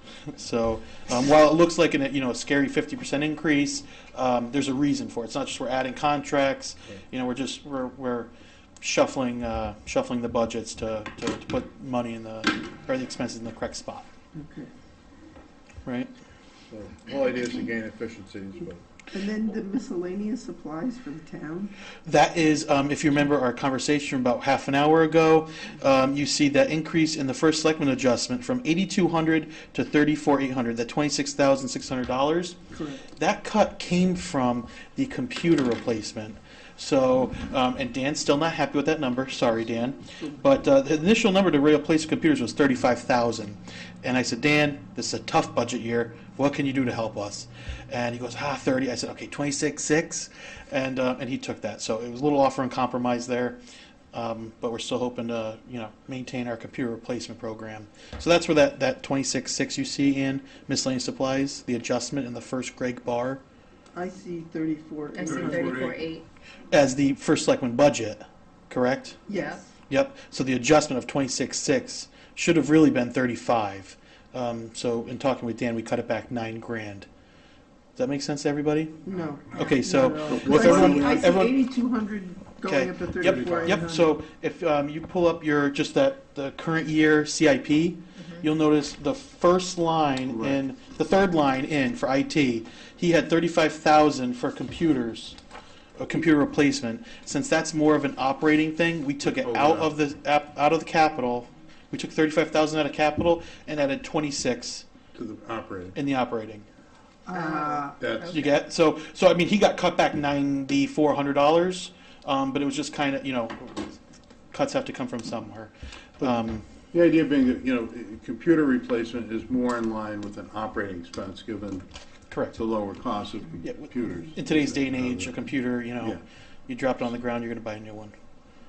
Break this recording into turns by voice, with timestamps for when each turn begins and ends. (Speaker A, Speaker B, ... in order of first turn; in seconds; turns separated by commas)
Speaker A: 0.3-14.1, Speaker B: 14.3-14.7, Speaker A: 15.8-16.1, Speaker C: 16.7-18.8, Speaker B: 19.1-21.7, Speaker A: 22.1-53.6, Speaker B: 32.7-33.0, Speaker A: 54.1-63.4, Speaker B: 63.9-65.9, Speaker D: 65.1-66.2, Speaker C: 65.3-66.0, Speaker A: 66.7-69.2, Speaker B: 69.3-69.6, Speaker D: 69.3-69.6, Speaker A: 69.9-77.1, Speaker A: 78.0-79.0, Speaker B: 79.0-84.1, Speaker C: 79.5-81.2, Speaker A: 79.5-81.5, Speaker A: 82.6-95.4, Speaker C: 83.2-83.8, Speaker C: 90.3-90.6, Speaker A: 96.0-104.9, Speaker C: 99.2-100.0, Speaker C: 105.2-106.0, Speaker A: 106.0-106.7, Speaker B: 107.3-108.0, Speaker D: 107.3-108.6, Speaker C: 108.0-108.4, Speaker A: 108.3-114.0, Speaker A: 114.5-116.7, Speaker C: 116.9-121.9, Speaker A: 122.3-122.6, Speaker C: 122.5-125.5, Speaker A: 123.6-128.1